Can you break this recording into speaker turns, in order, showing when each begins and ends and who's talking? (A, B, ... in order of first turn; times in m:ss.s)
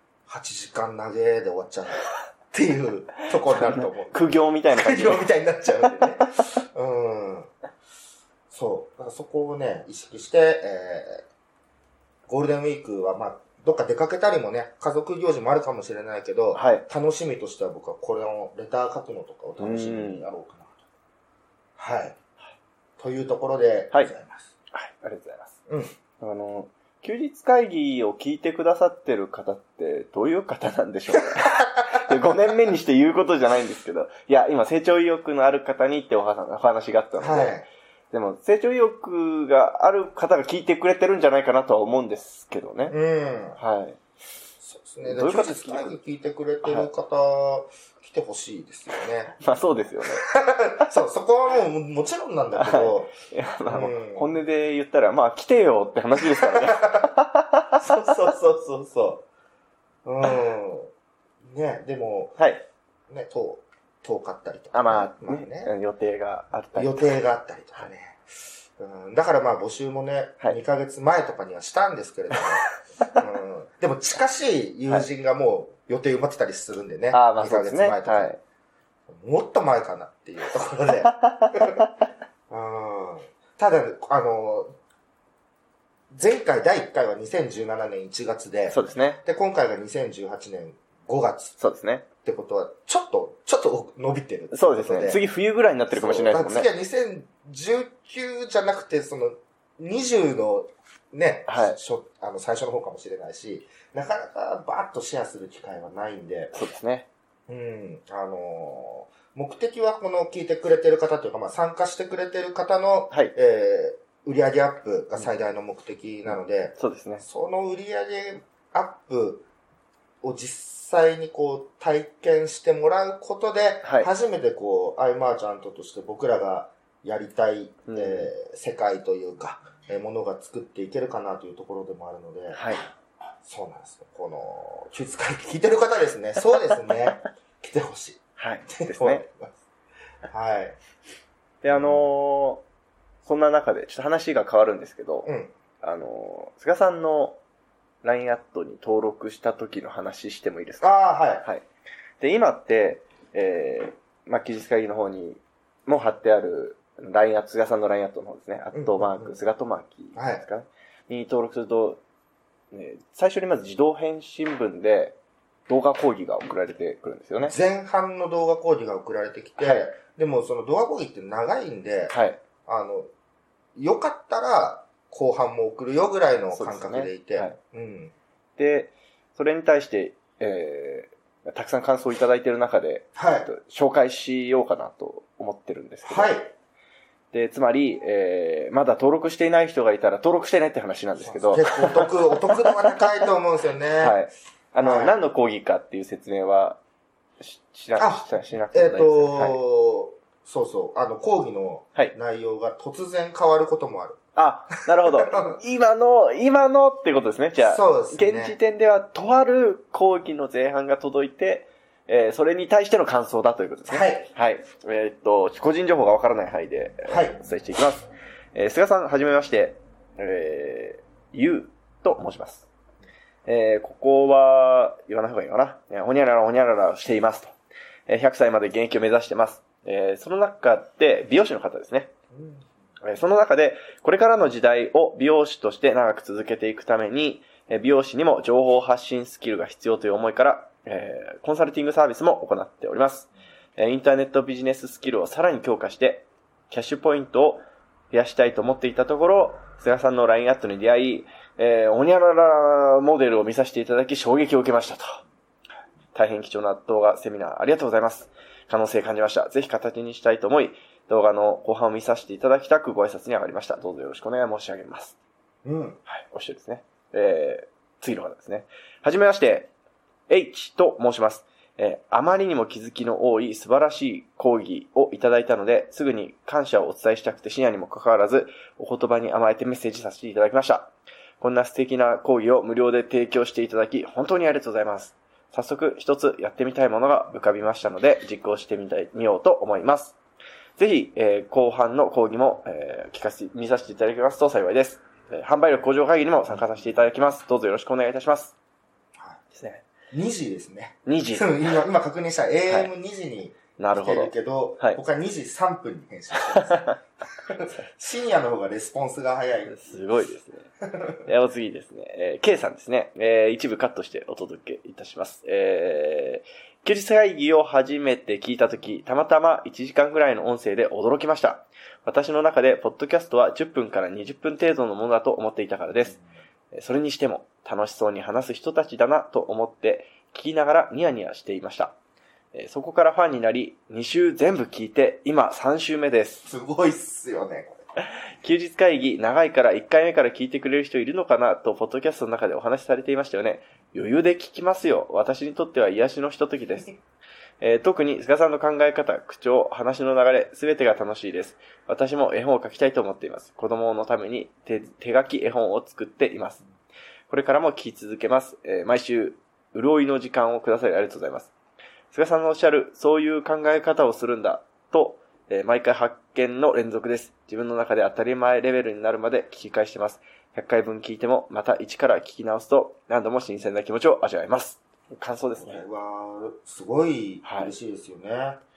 0:00.3-0:07.5 A
0:03.5-0:05.3 B
0:05.8-0:06.4 B
0:08.5-0:11.2 A
0:12.3-0:20.8 A
0:16.5-0:16.9 B
0:19.6-0:20.2 B
0:21.8-0:22.2 A
0:23.0-0:24.5 A
0:24.7-0:25.6 B
0:25.7-0:26.0 A
0:26.2-0:37.6 B
0:31.4-0:32.0 A
0:37.2-0:37.7 A
0:38.1-0:43.0 B
0:42.9-0:43.6 A
0:43.6-0:44.0 B
0:44.6-0:49.4 A
0:45.0-0:46.0 B
0:46.6-0:46.9 B
0:49.4-0:50.3 B
0:50.2-0:53.1 A
0:52.6-0:57.8 B
0:53.7-0:54.4 A
0:56.2-0:57.1 A
0:57.8-0:59.3 A
1:00.0-1:00.9 A
1:01.5-1:02.4 A
1:02.4-1:02.6 B
1:03.1-1:05.7 A
1:04.7-1:07.1 B
1:06.8-1:18.3 A
1:17.1-1:18.4 B
1:19.1-1:21.8 A
1:21.2-1:21.9 B
1:22.5-1:24.7 A
1:26.1-1:31.6 A
1:28.7-1:29.2 B
1:31.6-1:32.0 B
1:32.2-1:35.2 A
1:34.5-1:36.7 B
1:35.9-1:46.6 A
1:41.5-1:41.8 B
1:46.5-1:47.1 B
1:47.5-1:59.5 A
1:56.8-1:57.2 B
2:00.2-2:12.7 A
2:03.8-2:04.1 B
2:07.9-2:08.3 B
2:12.5-2:12.8 B
2:13.4-2:19.6 A
2:18.4-2:19.2 B
2:20.3-2:20.8 A
2:21.6-2:22.6 B
2:21.7-2:22.1 A
2:23.2-2:25.3 B
2:25.2-2:25.5 A
2:25.8-2:27.4 B
2:28.0-2:30.9 B
2:30.8-2:31.5 A
2:32.2-2:42.0 B
2:38.7-2:39.4 A
2:40.2-2:40.4 A
2:42.7-2:45.2 B
2:45.7-2:47.6 B
2:47.4-2:53.1 A
2:49.6-2:49.9 B
2:52.1-2:52.4 B
2:53.8-2:58.1 A
2:56.5-2:57.6 B
2:58.6-3:06.4 B
3:03.2-3:03.5 A
3:06.0-3:06.5 A
3:07.3-3:13.0 B
3:11.2-3:14.2 A
3:14.0-3:16.8 B
3:14.8-3:15.2 A
3:17.4-3:19.6 B
3:18.0-3:24.2 A
3:24.4-3:42.7 B
3:24.9-3:25.6 A
3:27.6-3:28.6 A
3:33.9-3:34.3 A
3:37.1-3:37.4 A
3:43.5-3:47.5 B
3:48.1-3:52.1 B
3:52.3-3:52.7 A
3:53.0-4:15.2 B
4:16.1-4:25.2 B
4:25.6-4:26.0 A
4:26.1-4:29.7 B
4:30.3-4:50.2 B
4:50.8-4:58.6 B
4:59.5-4:59.9 B
5:00.1-5:10.0 A
5:01.1-5:01.7 B
5:03.8-5:05.0 B
5:06.4-5:07.0 B
5:09.7-5:10.7 B
5:10.8-5:11.2 A
5:11.2-5:26.2 B
5:26.7-5:32.0 B
5:32.5-5:36.5 B
5:36.5-5:37.8 A
5:38.0-5:46.9 B
5:47.6-5:56.6 B
5:57.3-6:01.5 B
6:02.1-6:15.8 B
6:15.6-6:18.6 A
6:17.4-6:17.7 B